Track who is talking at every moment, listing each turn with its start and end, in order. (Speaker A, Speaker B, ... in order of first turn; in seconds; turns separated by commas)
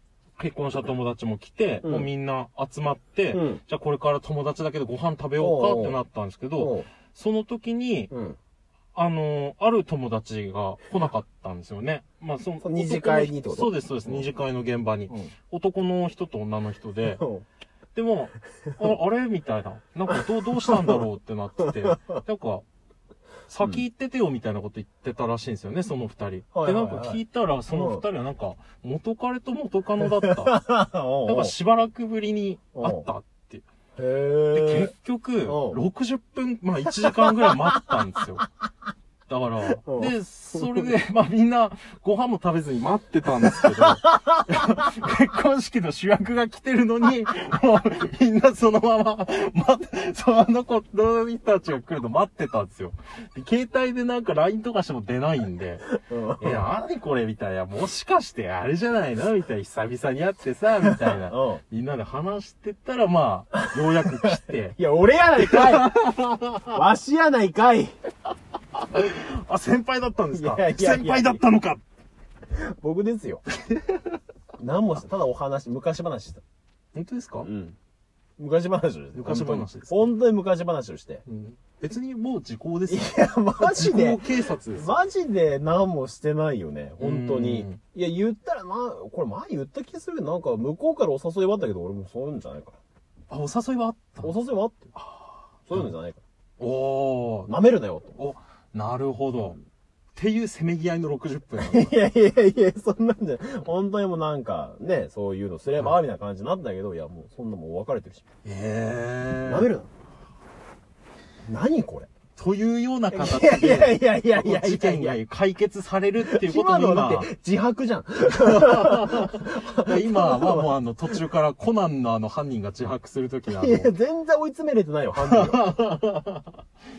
Speaker A: 0.4-8.1, Speaker B: 1.8-2.1, Speaker B: 3.3-3.6, Speaker B: 5.4-6.0, Speaker B: 6.6-6.9, Speaker B: 8.1-8.4, Speaker A: 8.9-17.2, Speaker B: 12.6-14.2, Speaker B: 17.1-17.4, Speaker A: 17.9-22.6, Speaker B: 20.1-21.0, Speaker B: 21.7-22.2, Speaker A: 23.5-30.6, Speaker B: 26.5-28.0, Speaker B: 30.0-31.5, Speaker A: 31.2-33.6, Speaker B: 32.8-33.1, Speaker B: 34.0-34.9, Speaker A: 34.5-38.5, Speaker B: 35.4-35.8, Speaker B: 37.2-37.5, Speaker A: 39.3-55.8, Speaker B: 39.8-40.9, Speaker B: 43.6-43.9, Speaker B: 55.9-56.6, Speaker A: 56.4-64.8, Speaker B: 60.9-61.6, Speaker B: 63.6-66.0, Speaker A: 65.4-66.8, Speaker B: 66.6-67.9, Speaker A: 68.8-71.8, Speaker B: 70.3-71.4, Speaker B: 72.5-73.4, Speaker B: 74.6-76.4, Speaker A: 76.9-77.5, Speaker B: 77.4-77.8, Speaker B: 78.4-81.2, Speaker A: 79.1-80.1, Speaker A: 81.3-84.9, Speaker B: 82.9-92.8, Speaker A: 87.0-87.8, Speaker A: 93.3-94.3, Speaker B: 94.2-94.9, Speaker A: 94.9-95.9, Speaker B: 95.7-96.2, Speaker A: 96.6-97.5, Speaker B: 97.5-98.2, Speaker A: 98.2-99.6, Speaker A: 100.1-101.9, Speaker B: 101.6-108.2, Speaker A: 108.4-109.7, Speaker B: 109.4-109.9, Speaker B: 111.5-112.1, Speaker A: 112.4-117.3, Speaker B: 113.1-115.2, Speaker B: 116.2-120.7, Speaker A: 118.4-123.9, Speaker B: 123.5-125.7, Speaker A: 125.2-126.6